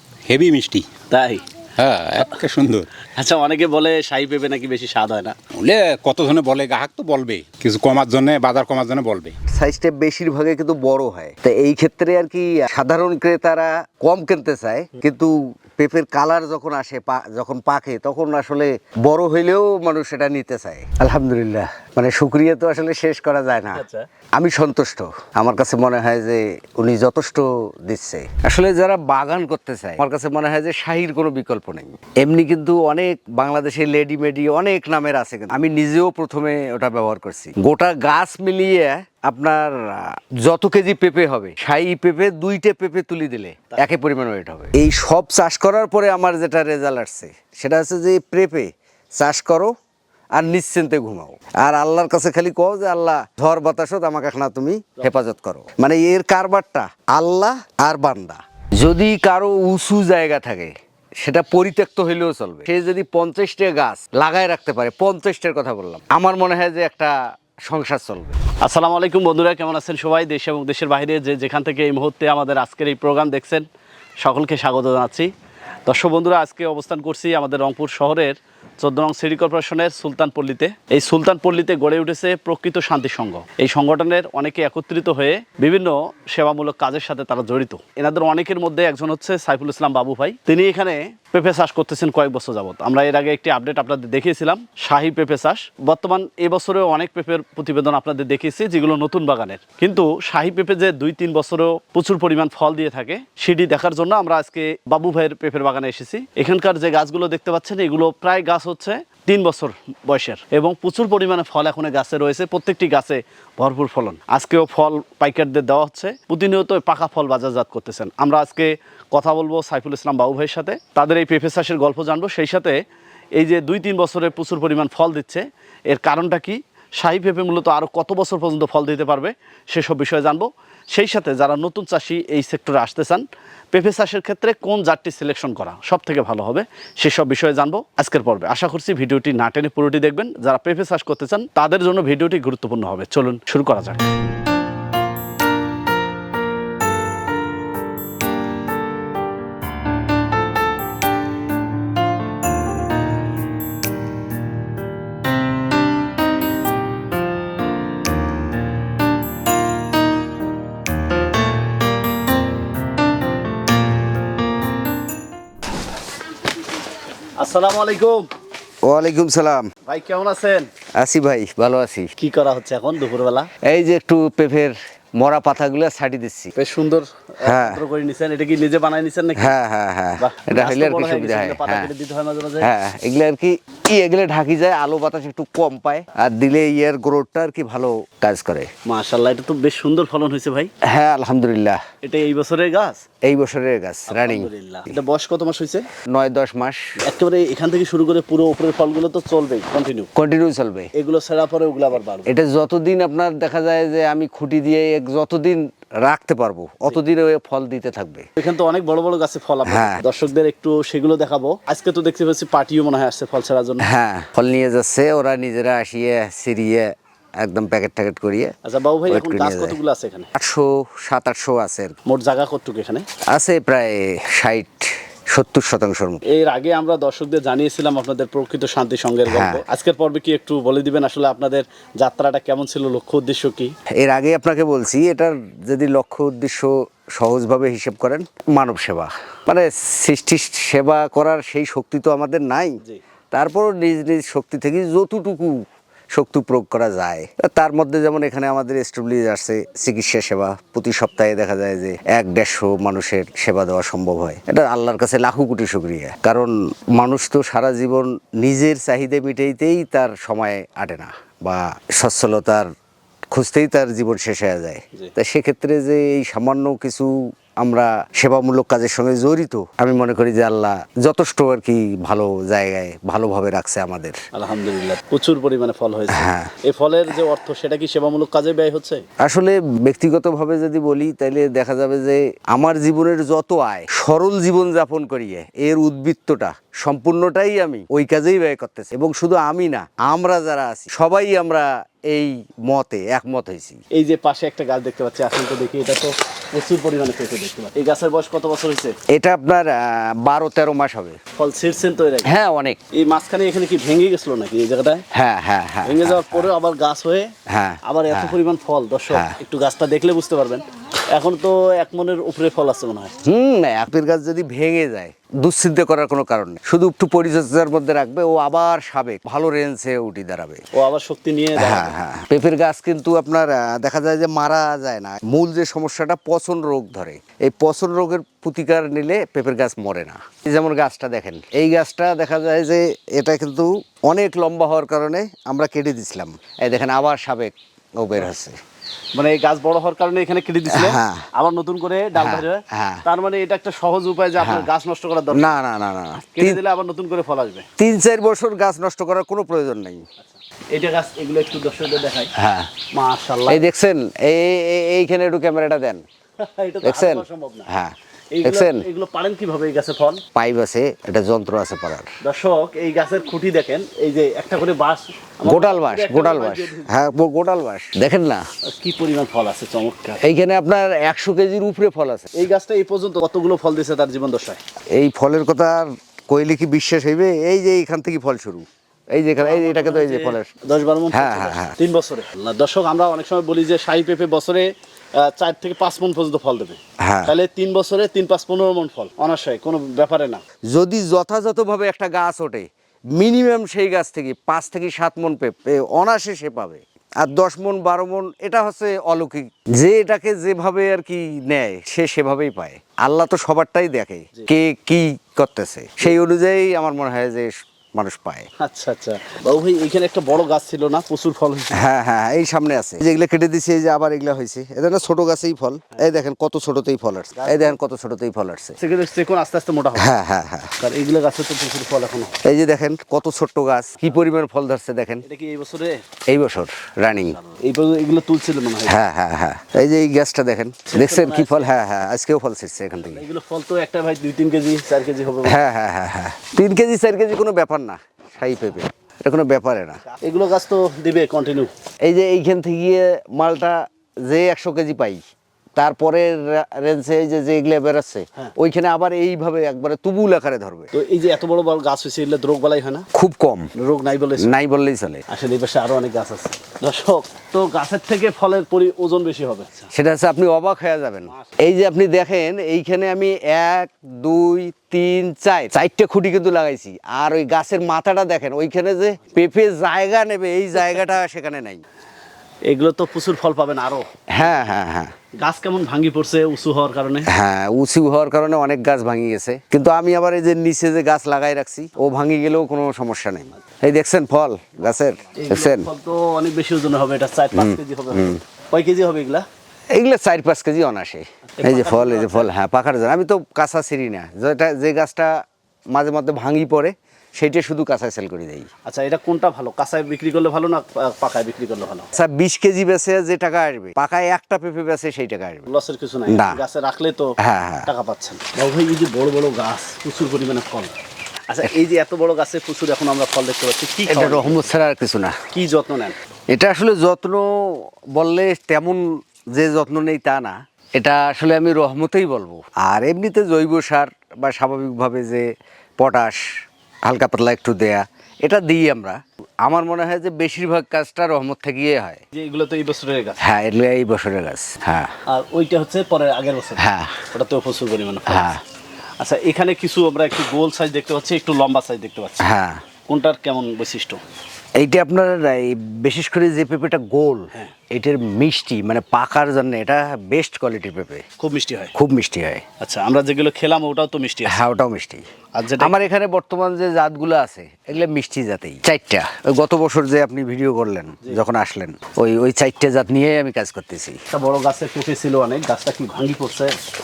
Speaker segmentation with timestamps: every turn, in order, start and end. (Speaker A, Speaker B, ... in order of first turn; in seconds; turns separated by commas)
Speaker A: 0.3-0.9, Speaker B: 1.1-1.4, Speaker A: 1.8-2.9, Speaker B: 3.1-5.3, Speaker A: 5.6-9.3, Speaker C: 9.5-23.8, Speaker B: 23.7-24.1, Speaker C: 24.4-49.7, Speaker C: 50.3-68.4, Speaker B: 68.6-73.7, Speaker B: 74.2-75.3, Speaker B: 75.8-122.8, Speaker B: 123.4-144.1, Speaker B: 167.4-168.2, Speaker C: 168.8-169.7, Speaker B: 169.8-170.7, Speaker C: 171.0-172.1, Speaker B: 172.2-173.5, Speaker C: 173.6-176.5, Speaker B: 176.6-179.5, Speaker C: 177.4-177.8, Speaker C: 179.3-181.9, Speaker B: 180.2-182.7, Speaker C: 182.6-188.7, Speaker B: 188.8-190.7, Speaker C: 190.8-191.8, Speaker B: 192.0-193.0, Speaker C: 193.2-194.5, Speaker B: 194.1-195.9, Speaker C: 196.1-197.0, Speaker B: 197.0-200.1, Speaker C: 200.2-200.9, Speaker B: 200.9-202.3, Speaker C: 202.2-208.2, Speaker B: 208.4-213.8, Speaker C: 209.7-210.0, Speaker C: 213.8-218.5, Speaker B: 218.6-220.3, Speaker C: 219.1-219.8, Speaker C: 220.3-222.0, Speaker B: 222.1-223.1, Speaker C: 223.3-226.2, Speaker B: 226.3-233.7, Speaker C: 229.2-229.6, Speaker C: 233.9-242.8, Speaker C: 243.3-262.7, Speaker C: 263.3-274.2, Speaker B: 274.3-279.0, Speaker C: 276.1-276.5, Speaker C: 279.2-293.8, Speaker B: 293.9-298.9, Speaker C: 299.1-301.2, Speaker B: 301.4-302.3, Speaker C: 302.2-302.8, Speaker B: 302.9-305.0, Speaker C: 305.1-306.5, Speaker B: 305.9-307.3, Speaker C: 307.5-308.3, Speaker B: 307.8-313.1, Speaker C: 309.1-309.4, Speaker C: 313.2-320.6, Speaker B: 320.7-321.9, Speaker C: 321.6-338.6, Speaker B: 339.1-345.6, Speaker C: 340.7-341.2, Speaker C: 342.1-343.0, Speaker C: 344.4-344.7, Speaker C: 345.3-346.6, Speaker B: 346.4-347.6, Speaker C: 347.8-350.0, Speaker B: 350.2-352.3, Speaker C: 352.4-352.7, Speaker B: 352.9-353.6, Speaker C: 353.5-356.0, Speaker B: 356.4-357.7, Speaker C: 356.8-358.9, Speaker B: 358.3-360.2, Speaker C: 360.3-362.1, Speaker B: 362.2-366.9, Speaker C: 365.4-368.4, Speaker B: 368.7-370.2, Speaker C: 370.2-372.3, Speaker B: 372.4-374.6, Speaker C: 374.9-380.5, Speaker B: 379.4-390.4, Speaker C: 381.1-381.8, Speaker C: 387.0-387.3, Speaker C: 390.7-408.5, Speaker B: 408.6-411.8, Speaker C: 411.7-418.8, Speaker B: 417.4-417.8, Speaker B: 418.8-420.1, Speaker C: 419.9-420.7, Speaker B: 420.8-422.4, Speaker C: 422.4-425.2, Speaker B: 425.2-426.0, Speaker C: 426.3-427.4, Speaker B: 427.1-429.0, Speaker C: 428.9-433.2, Speaker B: 430.9-431.7, Speaker B: 433.1-435.6, Speaker C: 435.4-440.0, Speaker B: 440.1-441.7, Speaker C: 442.0-445.2, Speaker C: 445.8-450.9, Speaker B: 450.9-453.1, Speaker C: 453.1-453.7, Speaker B: 453.8-454.5, Speaker C: 454.4-455.2, Speaker B: 455.3-459.9, Speaker C: 459.9-471.8, Speaker B: 461.3-461.6, Speaker B: 472.7-474.1, Speaker C: 474.3-475.1, Speaker B: 475.4-477.3, Speaker C: 477.3-485.9, Speaker B: 485.3-489.4, Speaker C: 487.5-488.4, Speaker C: 489.9-495.4, Speaker B: 491.6-492.5, Speaker C: 495.9-498.7, Speaker B: 498.9-502.1, Speaker C: 502.1-505.6, Speaker B: 505.7-507.3, Speaker C: 506.3-506.6, Speaker C: 507.4-507.9, Speaker B: 507.9-510.9, Speaker B: 511.5-514.7, Speaker C: 514.1-515.4, Speaker B: 515.5-516.2, Speaker C: 516.5-525.5, Speaker C: 526.0-526.4, Speaker C: 527.0-532.2, Speaker B: 532.3-533.4, Speaker C: 533.4-535.1, Speaker B: 535.3-538.5, Speaker C: 536.8-537.2, Speaker C: 538.3-538.6, Speaker B: 539.2-542.5, Speaker C: 542.4-542.8, Speaker B: 543.0-544.2, Speaker C: 544.8-551.2, Speaker B: 551.4-551.9, Speaker C: 551.9-552.6, Speaker B: 552.8-554.6, Speaker C: 554.4-555.2, Speaker B: 555.5-556.0, Speaker C: 555.8-564.2, Speaker B: 564.3-566.7